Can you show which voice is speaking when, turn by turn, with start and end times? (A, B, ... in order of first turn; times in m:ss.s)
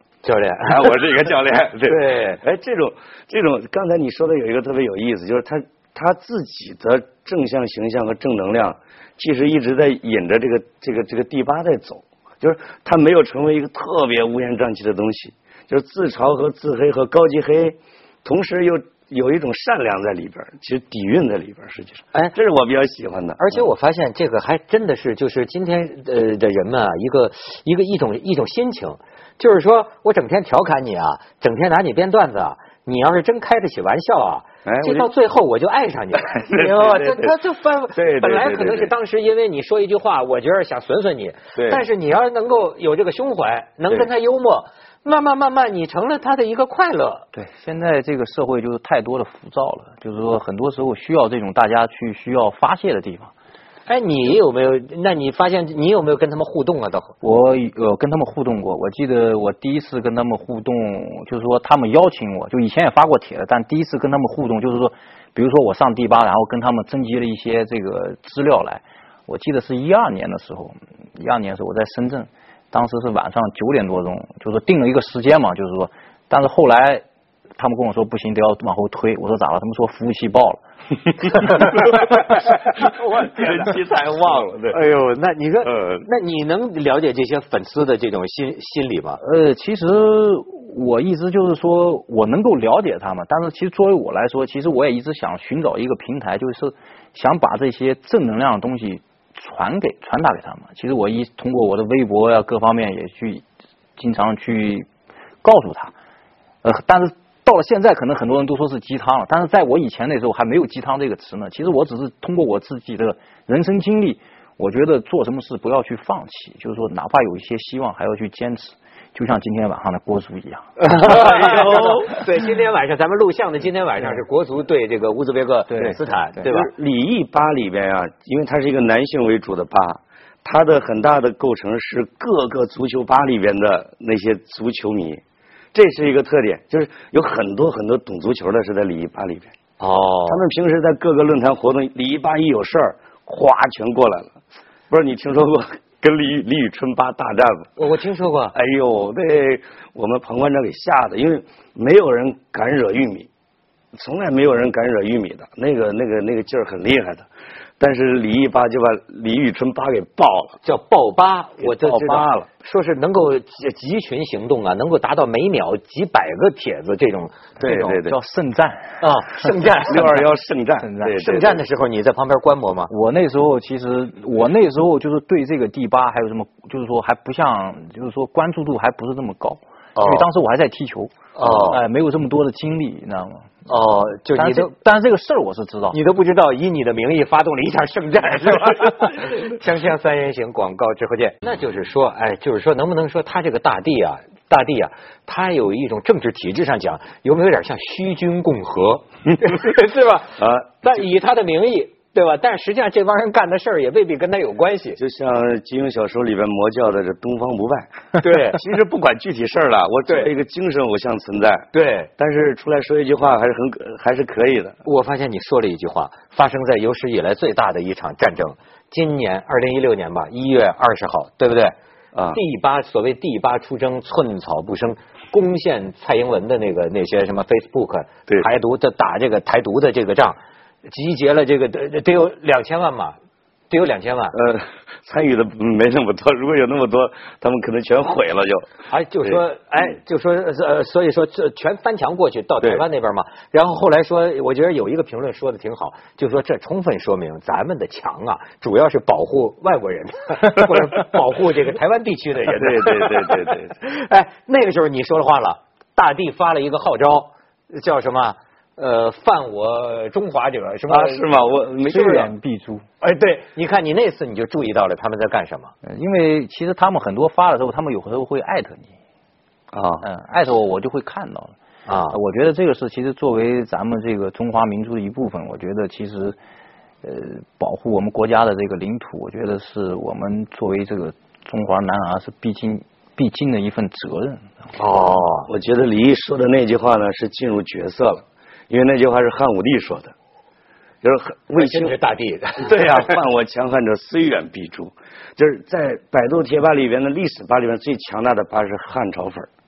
0:00.2-0:01.0 A
0:00.6-0:23.6 B
0:01.8-0:02.4 A
0:23.4-0:47.2 A
0:34.6-0:35.1 B
0:36.2-0:37.3 B
0:37.9-0:38.9 B
0:41.5-0:41.8 B
0:47.3-0:53.3 C
0:53.9-0:57.1 A
0:57.2-1:17.0 C
1:17.6-1:20.6 C
1:21.2-1:21.8 C
1:21.6-1:24.8 B
1:22.9-1:23.5 A
1:24.7-1:29.2 A
1:25.6-1:26.0 B
1:29.2-1:43.4 C
1:44.0-1:44.9 C
1:45.4-1:45.9 C
1:46.6-2:00.8 C
2:00.8-2:06.7 A
2:01.0-2:02.2 B
2:05.7-2:06.0 C
2:05.8-2:15.2 B
2:15.7-2:19.5 B
2:19.8-2:20.4 A
2:20.3-2:24.3 B
2:24.9-2:27.7 B
2:27.8-2:28.5 A
2:28.5-2:33.3 B
2:33.9-2:37.2 B
2:37.8-2:40.6 B
2:40.6-2:47.4 A
2:41.6-2:42.5 B
2:47.6-2:48.2 B
2:47.6-2:49.0 C
2:49.0-2:50.2 A
2:49.8-2:51.6 B
2:50.8-2:51.2 C
2:51.1-2:52.9 A
2:52.9-3:03.5 C
3:00.0-3:00.3 A
3:01.4-3:01.8 A
3:03.6-3:04.7 A
3:04.3-3:06.0 C
3:05.9-3:25.0 A
3:20.4-3:20.7 B
3:25.0-3:34.8 B
3:28.2-3:28.6 A
3:31.7-3:32.1 A
3:34.8-3:41.8 A
3:42.1-3:42.4 B
3:42.3-3:53.2 A
3:53.7-3:54.4 A
3:54.3-3:58.7 B
3:58.9-4:21.2 A
4:12.5-4:13.7 B
4:20.9-4:22.3 B
4:21.8-4:22.8 C
4:23.0-4:25.7 A
4:25.8-4:28.9 C
4:29.7-4:30.0 B
4:30.0-4:31.5 C
4:31.8-4:32.2 A
4:32.1-4:36.4 C
4:37.0-4:44.4 C
4:44.8-4:45.5 A
4:45.5-4:50.1 B
4:51.0-4:51.9 B
4:51.5-4:53.1 A
4:52.6-4:59.5 B